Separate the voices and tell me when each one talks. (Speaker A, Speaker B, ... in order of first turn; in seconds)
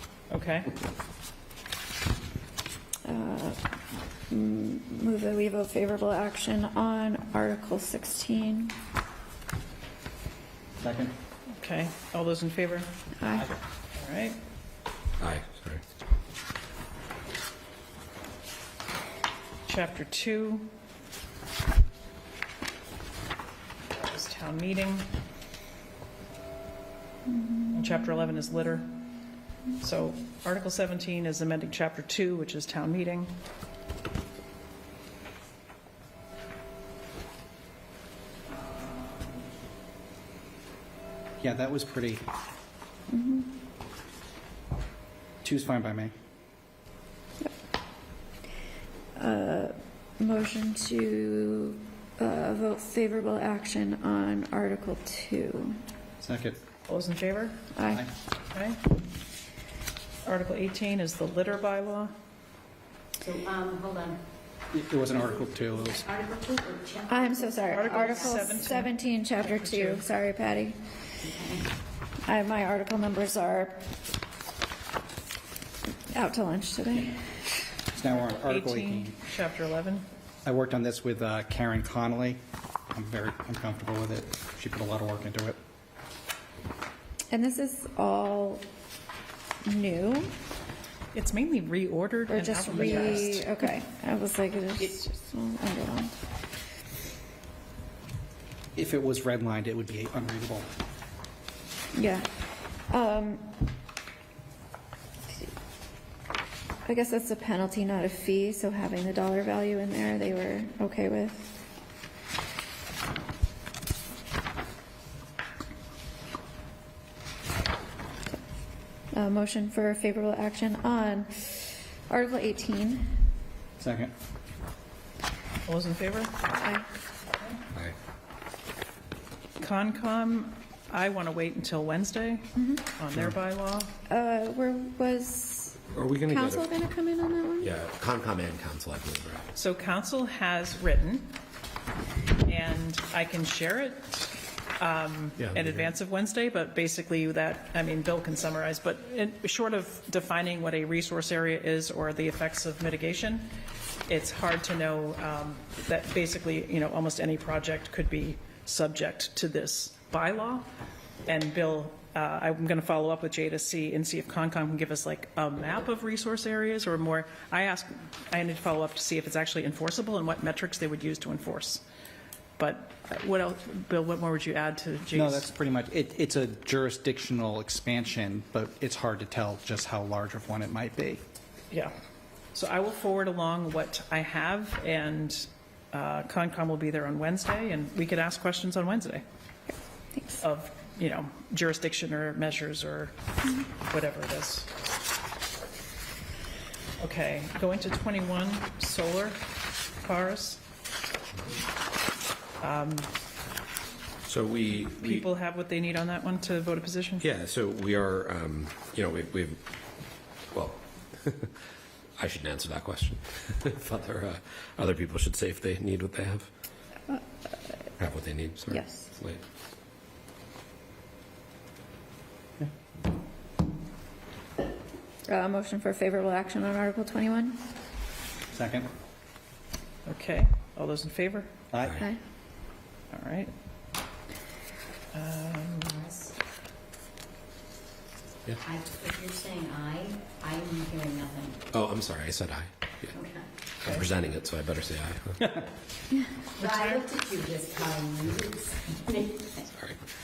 Speaker A: 0.3-0.7, 11.6-12.9, 14.0-14.4, 19.7-20.7, 23.9-25.1, 27.7-28.9, 29.8-33.3, 56.9-57.6, 58.5-58.8, 60.2-62.1, 67.7-70.1, 78.1-80.1, 91.1-93.5, 125.7-126.4, 129.6-133.9, 139.5-141.3, 142.4-153.5, 154.1-160.7, 161.3-171.8, 172.6-175.5, 182.5-189.2, 190.4-194.7, 197.0-199.4, 200.0-200.6, 202.6-203.1, 205.0-207.3, 230.1-231.5, 233.1-233.5, 235.1-235.9, 246.6-247.1
Speaker B: 3.0-3.6, 4.3-8.8, 13.2-13.5, 27.4-27.9, 43.1-43.5, 49.2-55.8, 57.8-58.0, 67.1-70.8, 72.3-73.9, 76.1-77.6, 87.3-88.7, 89.7-90.3, 92.3-96.2, 102.0-102.3, 102.9-103.6, 106.9-111.6, 119.1-123.3, 126.5-126.9, 132.6-132.8, 134.1-137.7, 190.1-190.4, 218.7-219.1, 225.3-227.6
Speaker C: 10.8-11.1, 41.4-42.2, 45.4-46.1, 56.2-56.6, 64.7-66.1, 77.9-79.2, 80.5-85.6, 92.8-93.0, 98.8-100.7, 123.8-124.1, 175.1-181.2, 228.5-228.9, 231.7-232.0
Speaker D: 15.2-15.8, 135.9-136.7, 137.6-139.5, 145.4-145.8, 204.2-205.3, 207.2-209.6, 210.5-211.5, 212.2-216.5, 218.0-219.4, 241.7-243.2, 243.8-245.6, 249.7-250.0
Speaker E: 63.2-64.2, 66.1-68.1, 71.3-71.7, 235.8-236.3, 238.7-241.7, 243.2-243.4, 246.6-249.6